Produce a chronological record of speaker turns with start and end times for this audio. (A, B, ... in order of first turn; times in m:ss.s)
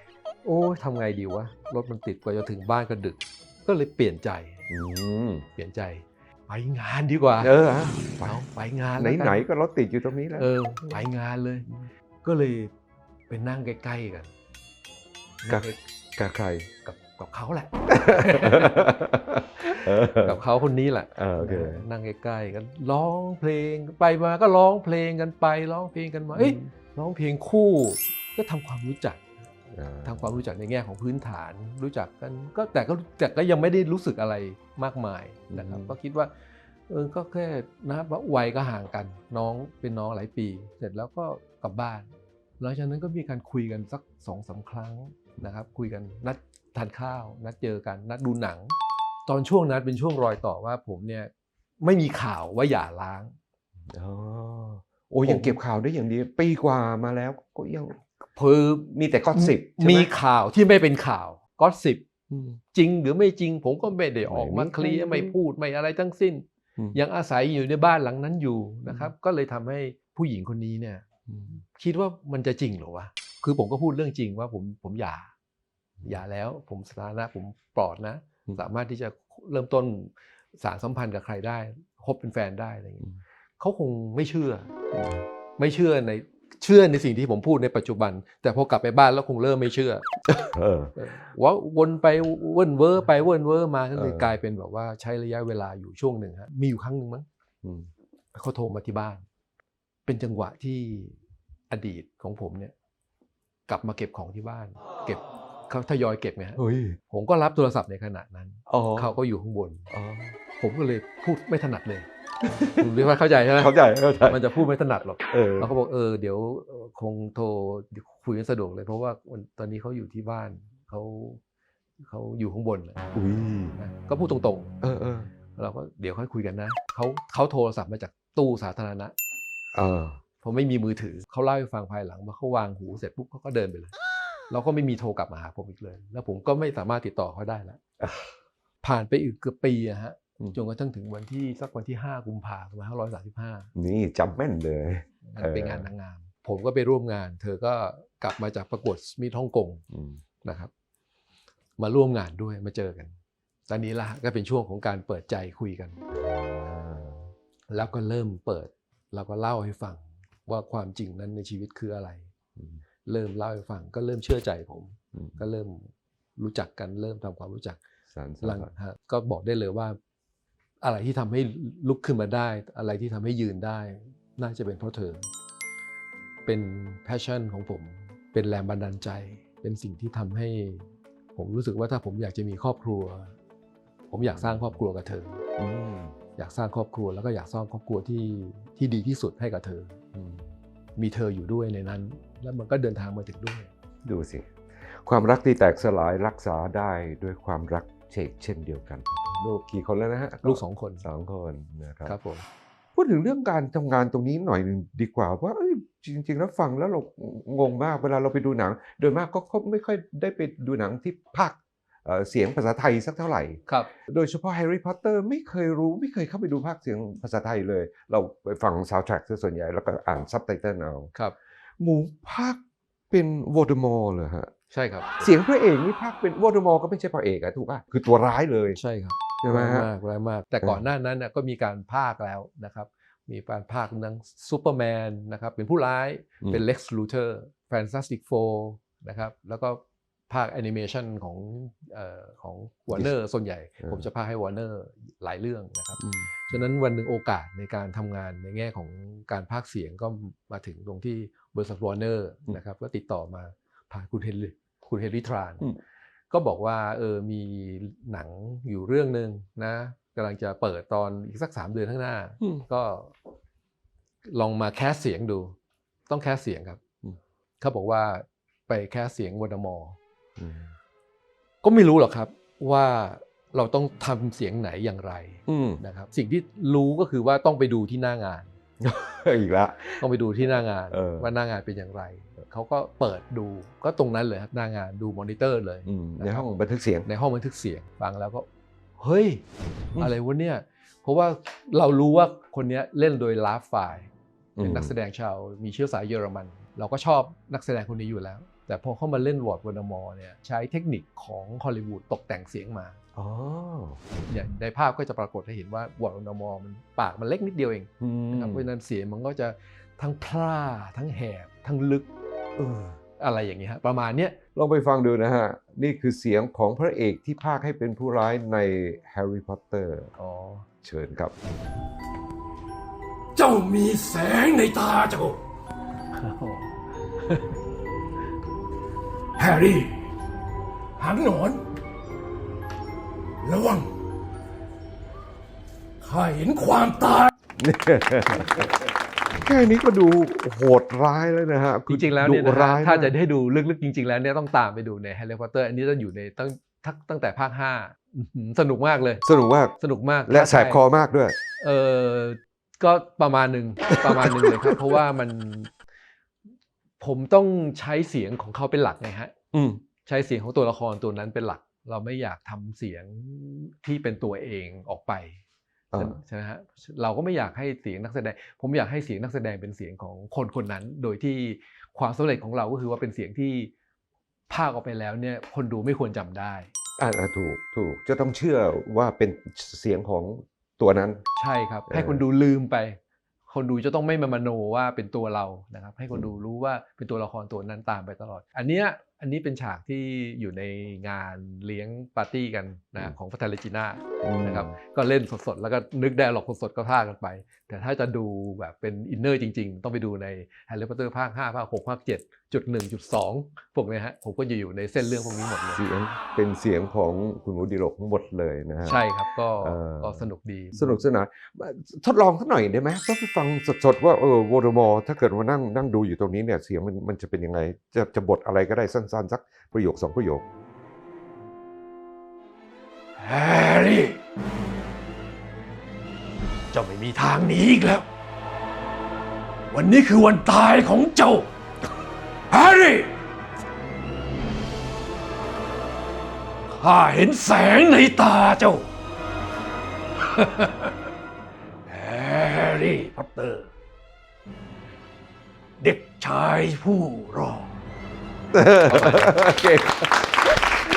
0:00.4-0:04.6 A
0:04.7-0:05.5 B
0:05.6-0:07.5 A
0:07.4-0:08.4 B
0:08.2-0:09.4 A
0:09.0-0:11.0 B
0:10.4-0:11.7 A
0:12.2-0:12.7 A
0:13.3-0:14.3 A
0:15.4-0:15.8 A
0:15.5-0:16.7 B
0:16.8-0:18.9 A
0:17.9-0:20.4 B
0:20.2-0:29.2 A
0:21.1-0:21.8 B
0:26.3-0:26.7 B
0:29.7-0:30.4 B
0:30.0-0:36.3 A
0:35.5-0:36.0 B
0:36.9-0:51.3 A
0:51.8-0:53.4 A
0:53.9-0:58.1 B
0:55.2-0:55.6 A
0:58.4-1:02.0 A
0:58.8-1:00.1 B
1:02.3-1:02.6 B
1:02.7-1:11.0 A
1:04.3-1:05.3 B
1:11.3-1:11.6 B
1:11.6-1:15.3 A
1:16.0-1:23.1 A
1:23.6-1:24.7 A
1:24.9-1:25.3 B
1:25.6-1:30.1 A
1:30.3-1:30.9 B
1:31.0-1:37.3 A
1:34.0-1:34.3 B
1:37.6-1:37.9 B
1:38.3-1:39.2 A
1:40.0-1:41.2 A
1:41.7-1:42.7 A
1:43.7-1:49.9 A
1:46.6-1:47.0 B
1:48.7-1:49.1 B
1:49.9-1:50.4 B
1:50.6-1:52.1 A
1:52.6-1:54.5 B
1:52.7-1:53.7 A
1:54.2-2:01.4 A
1:55.3-1:55.7 B
2:02.0-2:03.2 A
2:03.1-2:03.8 B
2:03.8-2:04.8 A
2:04.8-2:05.3 B
2:05.5-2:09.1 A
2:09.7-2:10.2 B
2:10.4-2:14.0 A
2:14.5-2:17.8 A
2:18.0-2:18.3 B
2:18.8-2:23.7 A
2:23.8-2:25.9 B
2:25.2-2:29.8 A
2:29.9-2:30.2 B
2:30.4-2:30.7 A
2:31.8-2:33.1 A
2:33.7-2:36.0 A
2:36.1-2:37.3 B
2:37.7-2:42.3 A
2:43.0-2:47.8 A
2:45.1-2:45.4 B
2:48.1-2:48.7 B
2:48.4-2:50.0 A
2:50.8-2:55.3 A
2:56.4-3:03.3 A
3:04.1-3:05.4 A
3:05.6-3:06.2 B
3:06.4-3:10.0 A
3:10.1-3:10.5 B
3:11.0-3:13.7 A
3:14.0-3:22.2 B
3:20.4-3:21.0 A
3:22.0-3:22.4 A
3:23.0-3:41.1 B
3:41.8-3:44.5 B
3:44.7-3:45.3 A
3:45.2-3:48.8 B
3:48.8-4:15.6 A
3:49.4-3:49.9 B
4:06.0-4:06.5 B
4:16.3-4:23.1 A
4:24.2-4:25.6 A
4:26.1-4:26.8 A
4:27.6-4:30.0 A
4:30.4-4:30.7 B
4:31.6-4:38.5 A
4:35.5-4:35.8 B
4:38.8-4:40.0 B
4:40.0-4:46.5 A
4:40.9-4:41.3 B
4:45.8-4:47.1 B
4:47.0-4:49.4 A
4:50.0-4:54.1 A
4:54.6-4:54.9 B
4:54.6-5:03.0 A
5:03.2-5:04.0 B
5:04.3-5:12.1 A
5:08.0-5:08.6 B
5:12.6-5:13.0 B
5:13.2-5:14.4 A
5:14.6-5:20.1 B
5:20.2-5:20.7 A
5:20.8-5:21.3 B
5:23.4-5:25.3 A
5:23.4-5:25.3 C
5:26.1-5:27.6 A
5:29.4-5:29.9 A
5:29.5-5:29.9 C
5:31.0-5:31.6 A
5:33.4-5:33.8 A
5:33.5-5:33.8 C
5:36.0-5:37.0 A
5:36.0-5:37.3 C
5:37.5-5:38.8 B
5:39.4-5:43.1 B
5:41.9-5:49.2 A
5:49.2-5:51.3 B
5:49.8-5:50.8 A
5:51.6-5:55.7 A
5:53.9-5:54.8 B
5:57.0-5:59.3 A
5:59.5-5:59.8 B
6:00.0-6:05.4 A
6:05.9-6:06.2 B
6:06.0-6:13.7 A
6:14.5-6:16.7 A
6:17.0-6:21.2 B
6:21.4-6:45.8 A
6:21.9-6:22.2 B
6:34.2-6:34.7 B
6:45.8-6:49.0 B
6:48.8-6:51.0 A
6:49.6-7:00.4 B
7:03.2-7:04.2 A
7:06.7-7:08.1 A
7:09.7-7:11.5 A
7:12.5-7:13.2 A
7:16.7-7:18.9 A
7:20.2-7:20.9 A
7:21.9-7:23.7 A
7:25.8-7:27.7 A
7:28.5-7:30.5 B
7:28.8-7:29.4 A